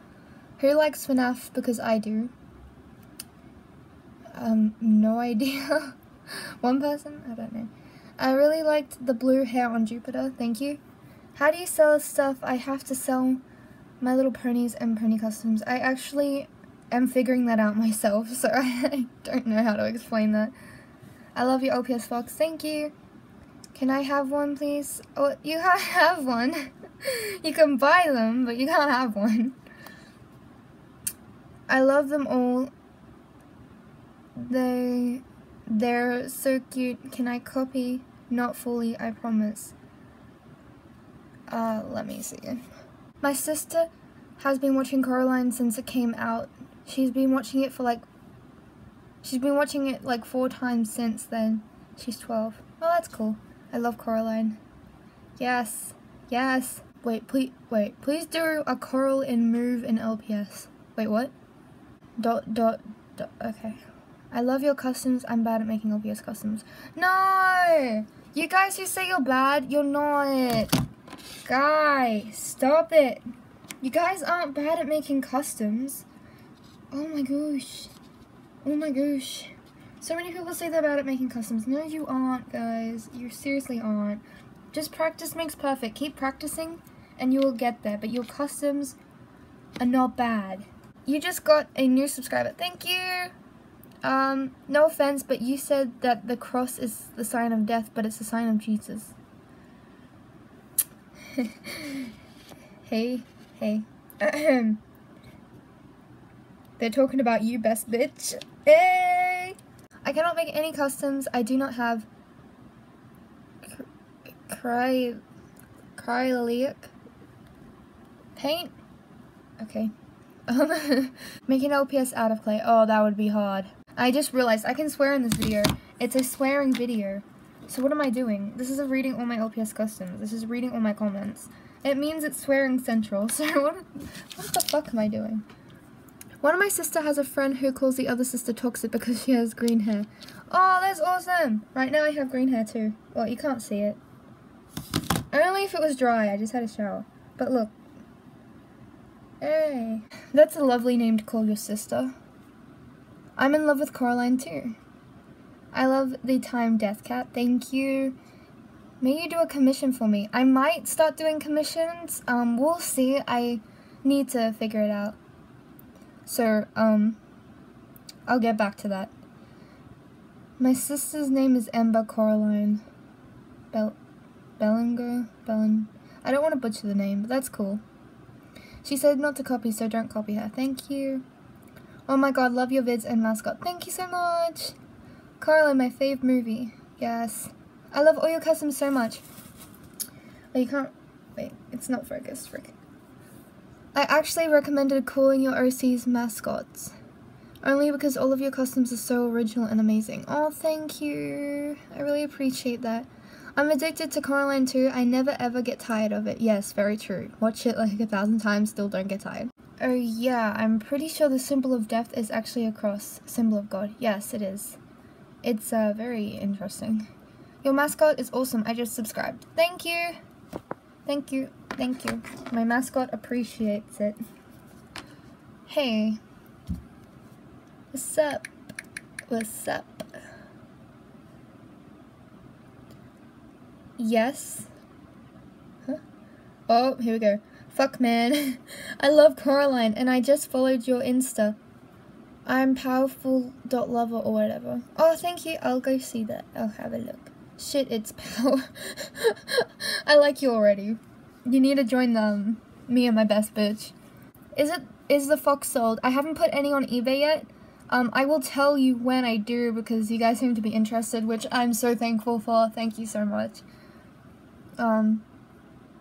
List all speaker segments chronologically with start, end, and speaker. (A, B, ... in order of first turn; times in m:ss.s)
0:00.6-0:02.3 A
0:04.4-0:10.8 A
0:11.4-0:13.4 A
0:14.0-0:20.5 A
0:21.4-0:22.9 A
0:23.7-0:29.6 A
0:31.7-0:32.7 A
0:34.4-0:39.8 A
0:41.5-0:42.7 A
0:43.2-0:48.1 A
0:49.2-0:54.6 A
0:55.4-1:01.3 A
1:02.2-1:10.8 A
1:11.4-1:13.2 A
1:13.8-1:16.1 A
1:16.9-1:17.9 A
1:18.6-1:29.0 A
1:29.8-1:33.4 A
1:34.0-1:39.2 A
1:41.3-1:42.1 A
1:42.9-1:44.8 A
1:46.8-1:52.1 A
1:54.4-1:55.2 A
1:56.0-1:56.9 A
1:58.4-1:58.7 A
1:59.6-1:59.9 A
2:00.5-2:15.4 A
2:16.4-2:24.0 A
2:25.3-2:27.7 A
2:29.4-2:32.1 A
2:33.4-2:34.8 A
2:35.7-2:38.2 A
2:39.0-2:45.2 A
2:46.3-2:47.2 A
2:48.3-2:49.1 A
2:50.6-2:52.8 A
2:53.7-2:54.0 A
2:54.6-2:57.8 A
2:58.8-3:01.3 A
3:02.1-3:04.8 A
3:05.4-3:09.2 A
3:10.5-3:12.8 A
3:14.0-3:17.0 A
3:17.6-3:34.8 A
3:35.4-3:37.1 A
3:37.6-3:40.2 A
3:41.1-3:44.2 A
3:45.7-3:46.2 A
3:47.9-3:48.5 A
3:49.3-3:50.1 A
3:54.0-3:54.7 A
3:56.7-4:01.6 A
4:02.5-4:13.9 A
4:14.6-4:23.6 A
4:24.8-4:25.2 A